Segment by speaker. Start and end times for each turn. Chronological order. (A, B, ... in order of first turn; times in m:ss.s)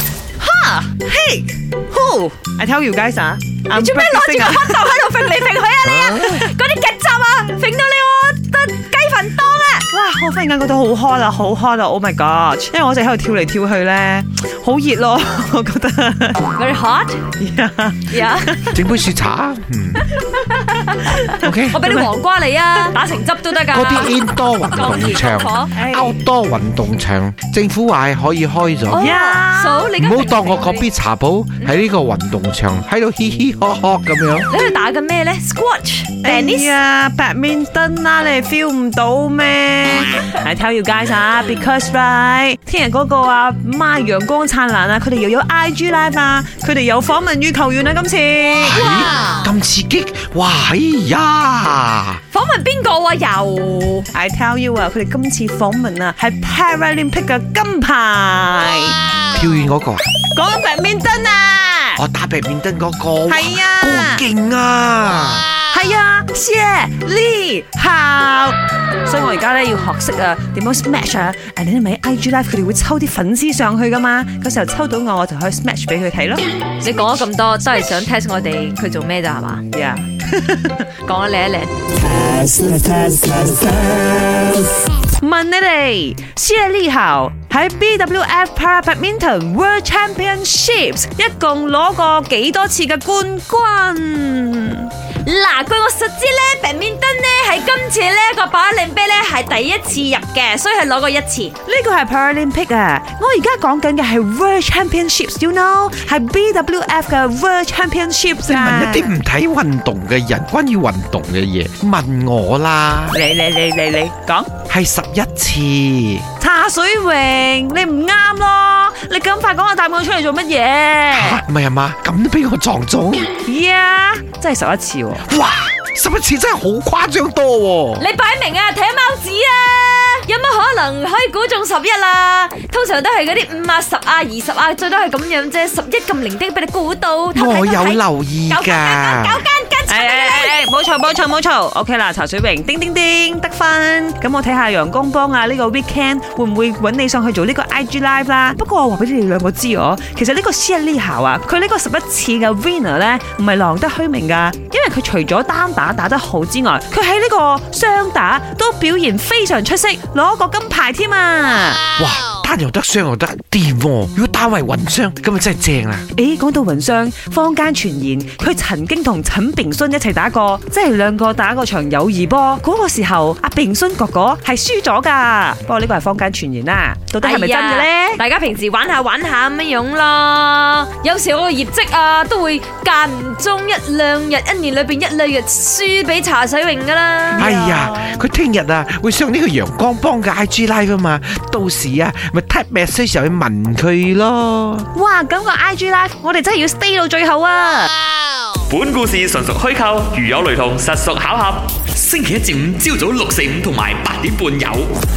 0:00.4-0:04.8 A
0:03.7-0:09.8 B
0:06.1-0:06.4 A
0:09.8-0:16.5 A
0:16.5-0:17.2 B
0:17.4-0:18.8 A
0:18.1-0:18.6 B
0:18.7-0:20.0 C
0:20.4-0:25.7 B
0:21.4-0:21.8 C
0:21.7-0:22.1 A
0:23.7-0:29.1 C
0:25.7-0:26.2 A
0:28.9-0:30.9 B
0:28.9-0:29.9 A
0:30.0-0:34.5 C
0:34.4-0:36.7 B
0:36.2-0:49.0 A
0:48.6-0:52.2 C
0:48.6-0:49.5 B
0:52.3-0:54.1 B
0:54.1-0:59.0 A
0:59.3-1:00.1 C
1:00.3-1:02.0 A
1:02.0-1:05.5 C
1:03.3-1:04.2 A
1:05.7-1:16.4 A
1:16.8-1:19.6 B
1:19.7-1:20.9 A
1:21.0-1:21.7 B
1:22.4-1:23.5 A
1:25.1-1:34.9 A
1:35.2-1:41.5 B
1:41.6-1:49.1 A
1:48.4-1:53.2 C
1:53.1-1:54.5 A
1:54.7-1:56.2 C
1:56.4-2:01.4 A
2:01.1-2:03.3 C
2:03.4-2:05.2 A
2:05.2-2:08.0 C
2:08.0-2:20.6 B
2:17.3-2:19.4 C
2:19.9-2:41.8 A
2:42.0-2:46.0 C
2:46.1-2:58.2 A
2:57.2-3:07.4 B
3:07.3-3:08.2 A
3:07.3-3:14.9 C
3:14.9-3:17.9 A
3:18.7-3:24.9 D